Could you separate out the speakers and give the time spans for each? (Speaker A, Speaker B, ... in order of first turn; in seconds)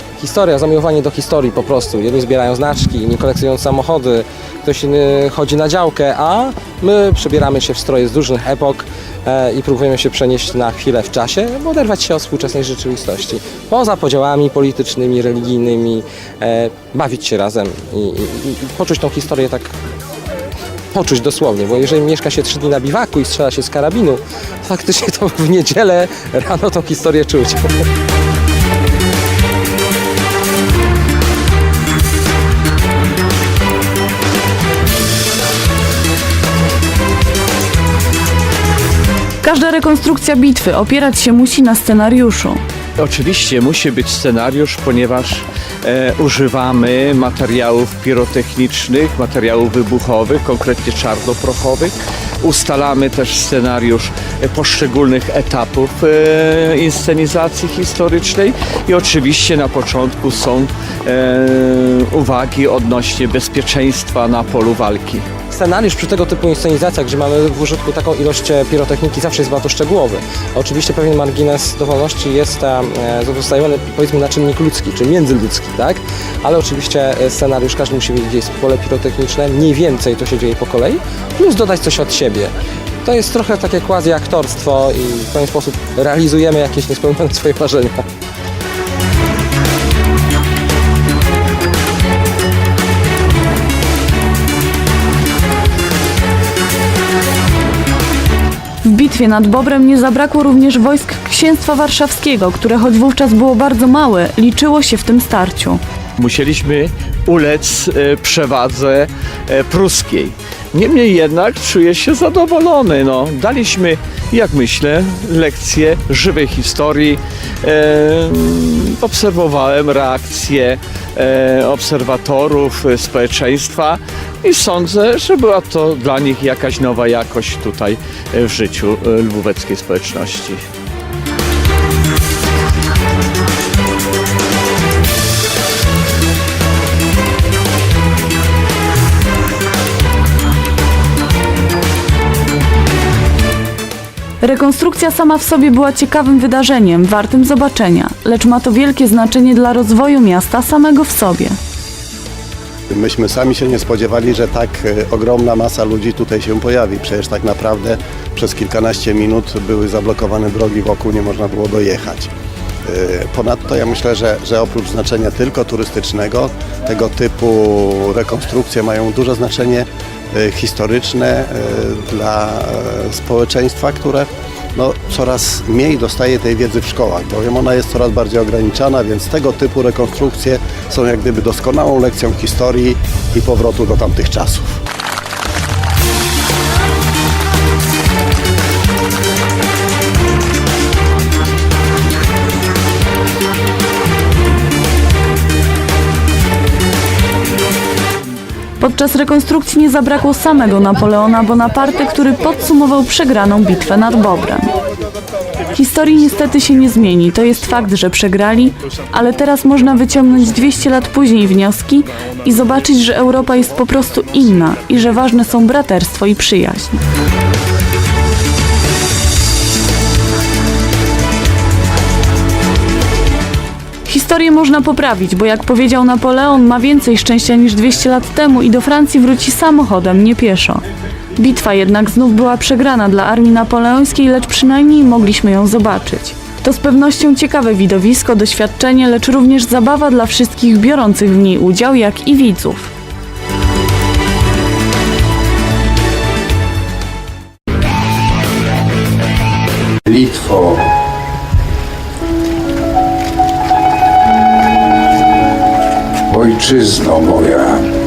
Speaker A: 0.2-19.8, 20.9-27.7, 65.5-82.5, 83.0-88.0
Speaker B: 39.4-42.6, 98.8-105.8, 144.4-151.6, 198.8-204.7, 205.7-217.0, 224.1-230.8, 231.4-242.9
Speaker C: 43.0-65.3, 106.2-130.6
Speaker D: 152.9-162.3, 162.8-184.8
Speaker E: 250.1-250.8, 256.3-257.8